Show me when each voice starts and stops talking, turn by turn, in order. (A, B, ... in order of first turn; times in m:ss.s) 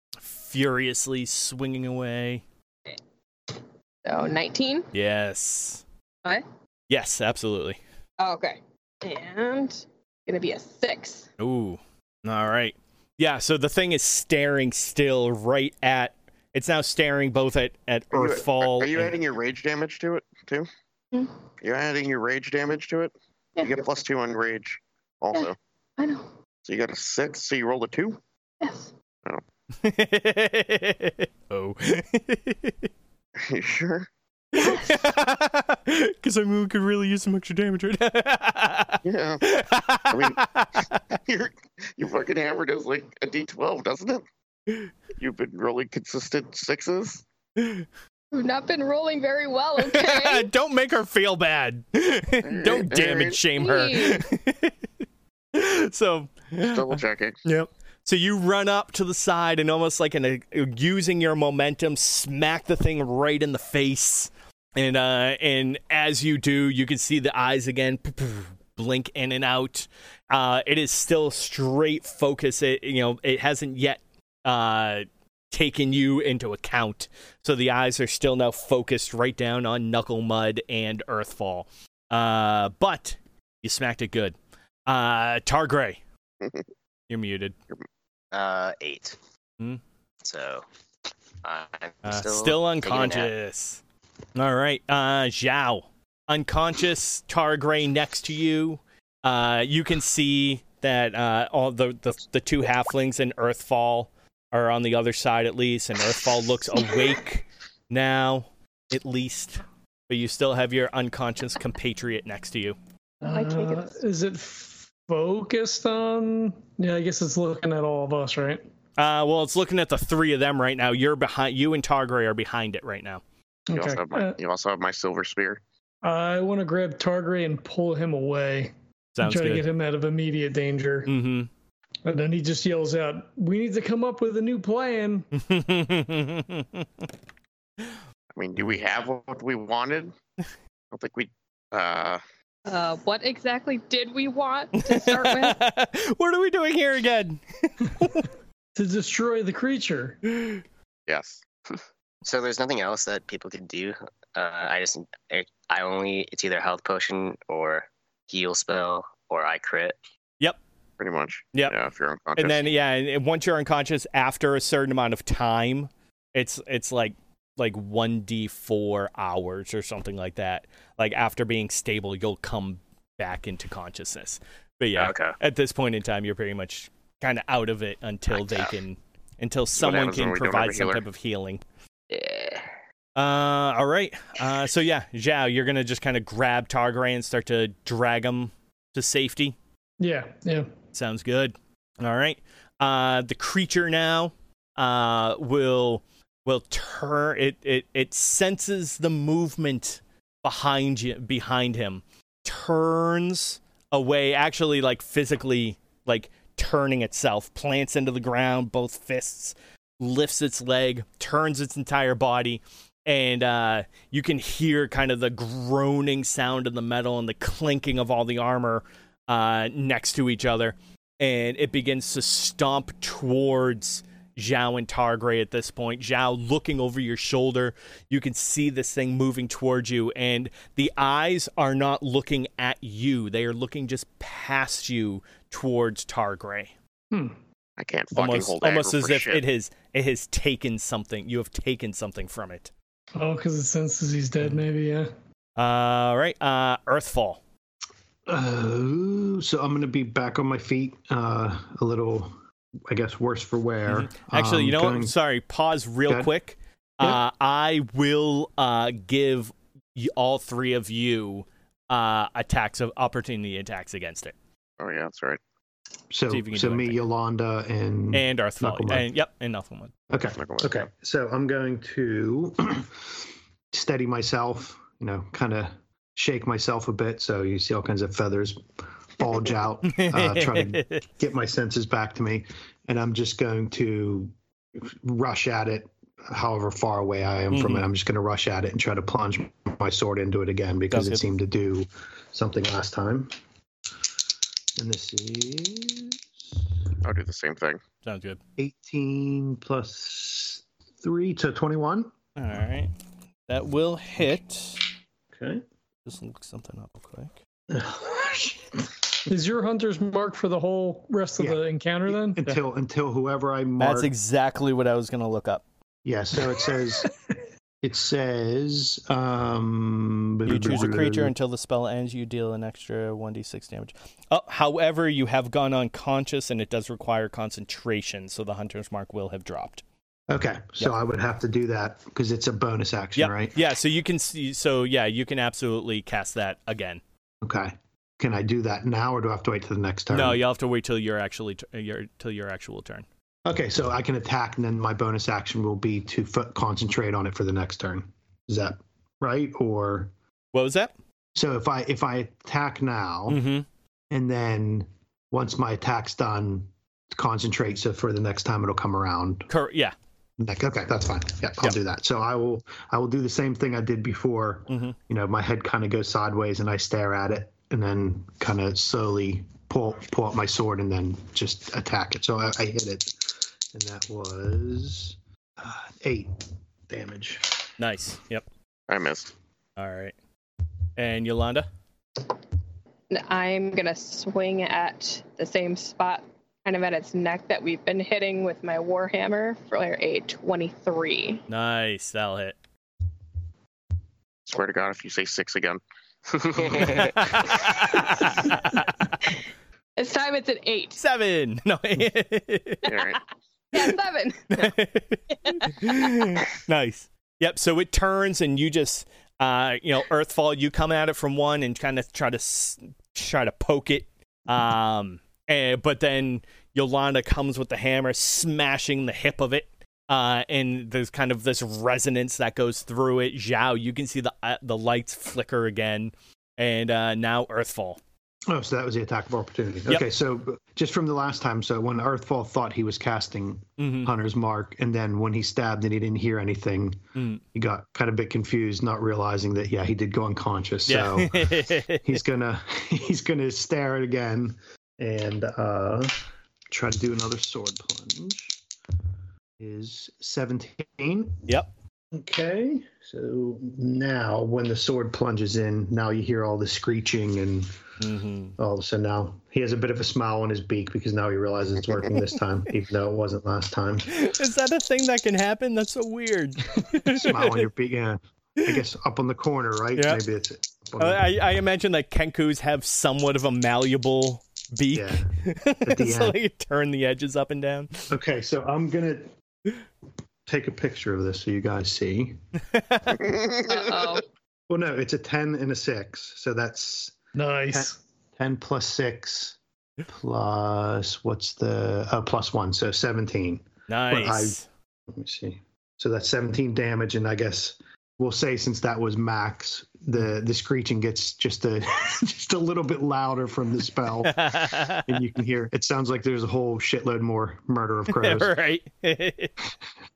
0:00.2-0:02.4 A
0:04.0-0:04.9 B
0:04.9-0:05.8 A
0:06.9-0:07.8 A
0:08.2-0:11.3 B
0:11.4-0:19.1 A
0:18.1-0:20.7 C
0:21.6-0:25.6 C
0:25.3-0:26.3 B
0:26.6-0:28.2 C
0:28.6-0:28.9 B
0:29.8-0:32.9 A
0:33.4-0:34.1 C
0:34.5-0:41.0 A
0:34.6-0:35.0 B
0:39.0-0:39.5 C
0:40.1-0:40.4 C
0:41.1-0:44.2 C
0:45.2-0:47.2 C
0:47.6-0:47.8 A
0:48.3-0:50.5 B
0:49.8-0:54.7 A
0:52.4-0:53.4 C
0:53.6-0:54.2 B
0:55.5-1:24.4 A
0:56.6-0:57.4 C
1:24.9-1:26.0 A
1:27.1-1:27.6 A
1:28.3-1:29.2 D
1:30.2-1:30.6 D
1:31.4-1:33.3 D
1:32.0-1:33.8 A
1:34.3-1:52.8 A
1:53.2-1:58.6 E
1:53.3-1:53.9 B
1:59.0-2:03.2 A
2:03.7-2:04.4 E
2:03.7-2:05.6 C
2:06.0-2:11.1 E
2:09.2-2:09.6 A
2:11.0-2:11.5 A
2:12.0-2:15.3 E
2:15.3-2:16.9 A
2:18.3-2:20.1 C
2:20.9-2:22.2 C
2:22.6-2:25.6 B
2:24.7-2:28.3 A
2:28.7-2:30.2 E
2:30.3-2:30.6 A
2:31.1-2:31.4 C
2:32.2-2:40.0 D
2:41.0-2:42.7 C
2:42.4-3:01.6 A
2:55.0-2:55.4 D
2:58.3-2:58.7 D
2:59.8-3:01.0 C
3:02.1-3:02.7 D
3:03.2-3:09.6 A
3:10.0-3:10.7 E
3:10.9-3:56.7 A
3:57.8-3:59.4 C
3:58.1-4:02.7 A
4:03.2-4:05.1 E
4:05.6-4:07.4 A
4:08.3-4:12.3 F
4:12.9-4:15.1 F
4:13.9-4:24.3 A
4:16.0-4:16.3 F
4:24.8-4:25.4 C
4:26.1-4:29.1 F
4:26.3-4:27.0 A
4:28.1-4:29.9 A
4:30.1-4:38.6 F
4:30.3-4:30.9 C
4:39.2-4:53.3 F
4:39.8-4:41.0 A
4:47.5-4:47.8 A
4:50.9-4:51.2 A
4:54.8-4:56.6 F
4:57.0-4:57.8 C
4:58.0-4:58.4 A
4:58.6-5:02.1 F
5:02.4-5:02.9 A
5:03.5-5:04.8 A
5:05.3-5:05.6 F
5:06.0-5:07.3 A
5:07.7-5:09.2 F
5:09.3-5:12.6 E
5:11.4-5:14.1 F
5:13.8-5:15.6 A
5:16.0-5:17.1 F
5:17.8-5:21.3 F
5:20.4-5:29.8 A
5:30.3-5:33.6 F
5:33.2-5:37.0 A
5:37.4-5:40.4 F
5:40.1-5:43.0 A
5:43.4-5:50.1 F
5:50.5-5:50.9 A
5:51.3-5:53.4 F
5:53.3-5:53.6 A
5:54.1-5:59.5 F
5:59.5-5:59.9 A
6:00.4-6:16.4 F
6:04.7-6:05.0 A
6:16.9-6:17.6 F
6:17.8-6:18.4 A
6:18.9-6:19.3 C
6:19.8-6:20.1 A
6:21.0-6:21.6 A
6:23.1-6:31.4 B
6:31.5-6:32.6 A
6:34.4-6:35.8 C
6:36.5-6:37.1 D
6:36.8-6:38.9 A
6:40.0-6:41.0 B
6:41.0-6:42.9 A
6:42.8-6:43.2 C
6:42.9-6:43.2 B
6:43.7-6:44.7 B
6:44.5-7:08.0 A
6:45.3-6:46.4 B
7:08.5-7:17.0 F
7:13.8-7:14.1 A
7:17.1-7:17.4 A
7:17.5-7:28.6 F
7:20.9-7:22.2 A
7:29.6-7:31.5 F
7:32.1-7:37.7 F
7:38.0-7:38.6 A
7:38.6-7:44.2 F
7:44.1-7:47.6 A
7:47.1-7:51.2 F
7:51.0-7:58.1 A
7:54.9-7:55.3 F
7:55.8-7:56.4 F
7:58.1-7:59.3 F
8:00.4-8:02.4 F
8:02.7-8:03.2 A
8:03.2-8:04.1 C
8:03.6-8:04.2 B
8:04.7-8:07.2 F
8:07.3-8:08.0 E
8:07.7-8:14.6 F
8:13.9-8:14.6 A
8:15.1-8:28.6 F
8:24.2-8:25.2 A
8:28.1-8:29.5 A